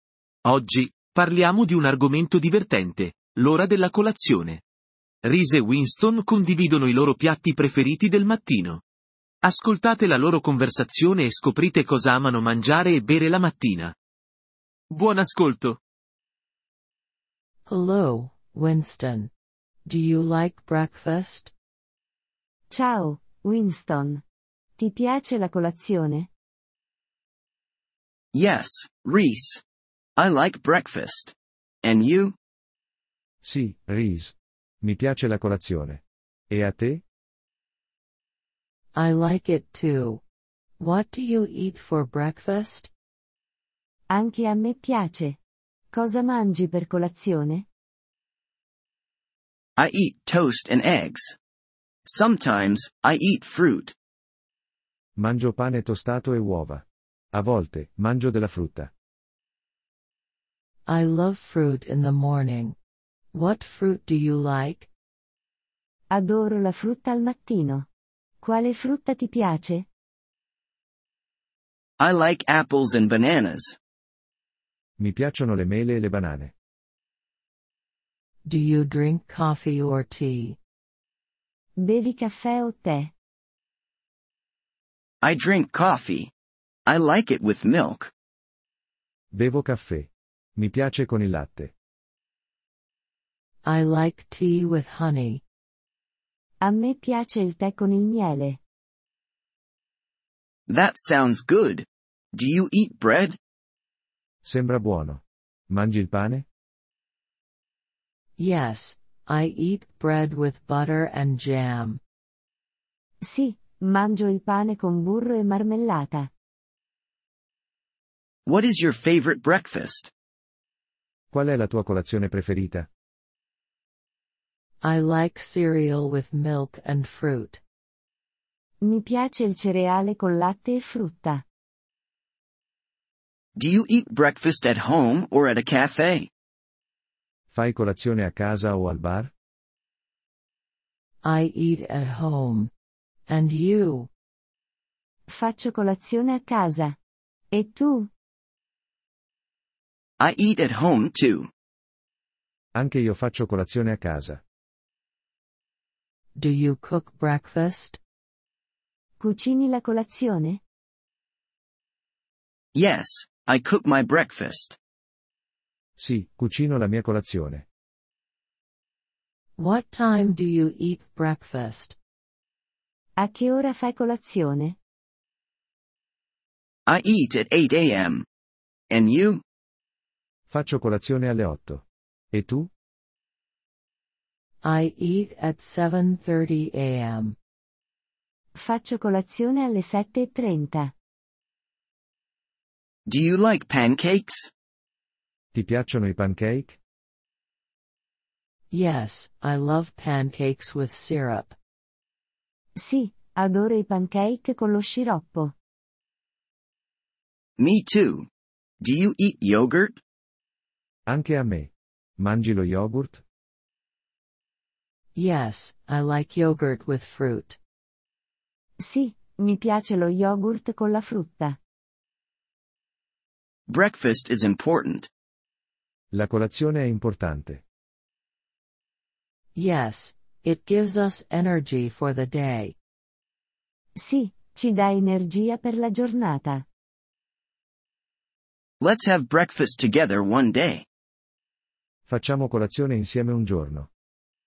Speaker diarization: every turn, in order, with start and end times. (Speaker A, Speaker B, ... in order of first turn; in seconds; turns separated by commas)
Speaker A: 0.5-4.6, Speaker A: 5.2-8.8, Speaker A: 9.4-13.9, Speaker A: 14.9-15.8, Speaker B: 17.7-19.3, Speaker B: 19.9-21.5, Speaker C: 22.7-24.2, Speaker C: 24.8-26.3, Speaker D: 28.3-29.6, Speaker D: 30.2-32.4, Speaker E: 33.4-37.0, Speaker B: 39.0-40.2, Speaker B: 40.8-42.9, Speaker C: 44.1-45.4, Speaker C: 45.9-47.6, Speaker D: 49.8-51.4, Speaker D: 52.1-53.9, Speaker E: 55.2-58.9, Speaker B: 60.9-62.8, Speaker B: 63.3-64.9, Speaker C: 66.1-67.8, Speaker C: 68.4-69.8, Speaker D: 72.0-73.8, Speaker E: 75.0-76.5, Speaker B: 78.5-80.6, Speaker C: 81.8-83.1, Speaker D: 85.2-86.3, Speaker D: 86.9-88.1, Speaker E: 89.3-91.7, Speaker B: 93.6-95.4, Speaker C: 96.6-98.6, Speaker D: 100.7-103.4, Speaker E: 104.5-106.5, Speaker B: 108.4-112.0, Speaker C: 113.2-116.3, Speaker D: 118.5-120.1, Speaker E: 121.3-122.9, Speaker B: 124.8-127.6, Speaker C: 128.8-131.4, Speaker D: 133.6-136.3, Speaker E: 137.5-139.3, Speaker B: 141.2-142.7, Speaker B: 143.3-144.1, Speaker C: 145.3-146.9, Speaker C: 147.5-148.1, Speaker D: 150.2-151.5, Speaker E: 152.8-154.4, Speaker B: 156.4-158.0, Speaker C: 159.2-160.6, Speaker D: 162.7-164.8, Speaker E: 166.0-167.7, Speaker B: 169.6-172.0, Speaker C: 173.2-174.8, Speaker D: 176.9-178.3, Speaker D: 178.9-179.4, Speaker E: 180.5-182.7, Speaker B: 184.6-187.3, Speaker C: 188.6-190.9, Speaker D: 193.1-194.5, Speaker E: 195.5-196.8, Speaker B: 198.7-201.6, Speaker C: 202.8-205.5, Speaker D: 207.6-208.3, Speaker D: 208.8-210.0, Speaker E: 211.1-213.2, Speaker B: 215.2-217.6, Speaker C: 218.8-221.6, Speaker D: 223.7-225.1, Speaker E: 226.1-227.6, Speaker B: 229.6-232.8, Speaker C: 234.0-236.6, Speaker D: 238.8-240.8, Speaker E: 242.1-243.9